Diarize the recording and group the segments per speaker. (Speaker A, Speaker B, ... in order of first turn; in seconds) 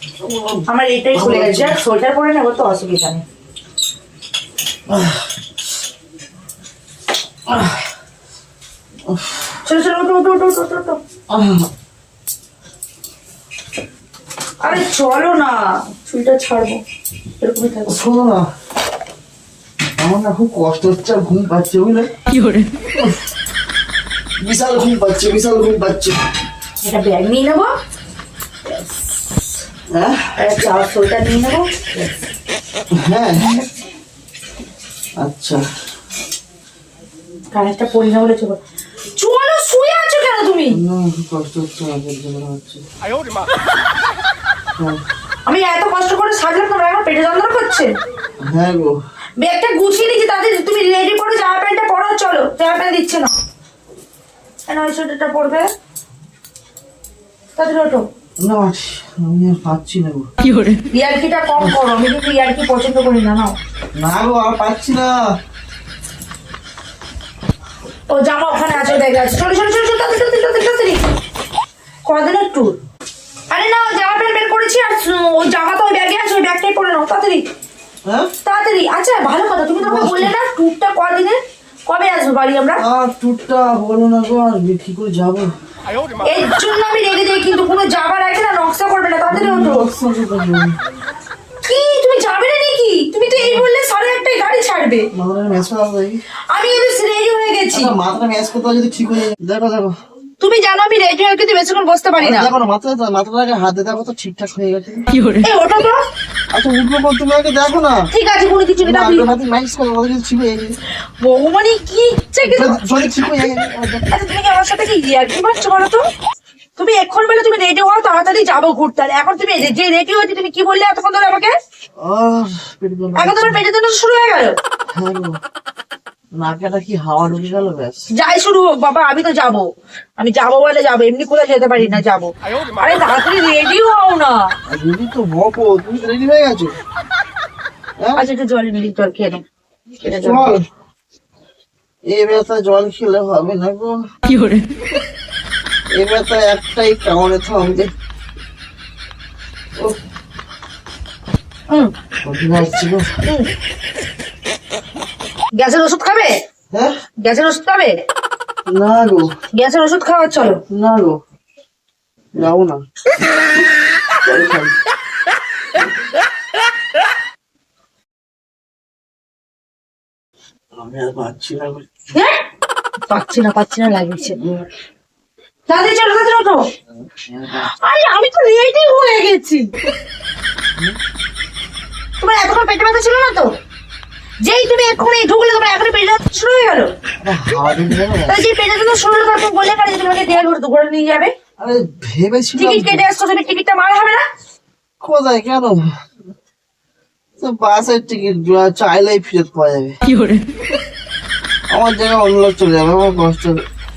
Speaker A: 0.2-1.8, 4.9-5.2, 7.5-7.8, 9.1-9.4, 11.3-11.7, 17.9-18.5, 20.0-22.1, 24.4-26.2, 29.9-30.3, 33.0-33.5, 35.2-35.6, 40.7-42.8, 48.4-49.0, 58.4-60.3, 64.0-65.2, 78.0-78.3, 79.8-80.3, 82.8-85.5, 89.3-90.8, 93.3-93.7, 95.1-96.2, 97.7-99.9, 102.2-105.2, 106.5-108.1, 108.8-110.8, 112.4-114.1, 122.0-123.6, 124.9-125.4, 126.4-128.1, 134.7-136.7, 140.2-140.6, 142.1-144.0, 145.9-147.9, 152.2-153.1, 158.7-159.3, 160.7-161.2, 162.4-162.8, 164.2-164.7, 170.8-171.9, 174.4-174.7, 177.3-177.7, 187.2-188.4, 191.6-193.1, 195.0-195.8, 197.4-199.9, 201.7-203.6
Speaker B: 0.7-3.2, 9.7-11.0, 14.6-16.8, 17.4-18.0, 26.8-27.7, 30.4-32.1, 33.4-33.7, 37.5-38.6, 39.1-40.8, 45.5-48.0, 49.4-53.3, 54.7-55.7, 57.6-58.1, 60.9-63.6, 68.1-71.1, 72.0-72.8, 73.5-77.5, 78.5-82.8, 86.2-89.9, 91.6-95.1, 96.5-98.0, 100.4-102.5, 105.4-106.0, 108.1-109.3, 111.2-112.8, 114.1-116.0, 116.8-121.5, 123.2-124.6, 128.1-134.6, 138.2-139.4, 140.0-140.5, 155.6-156.4, 157.2-158.0, 159.5-160.6, 172.1-172.4, 173.1-174.4, 175.7-176.7, 177.6-179.7, 182.2-183.5, 184.4-186.9, 188.3-191.3, 192.5-194.2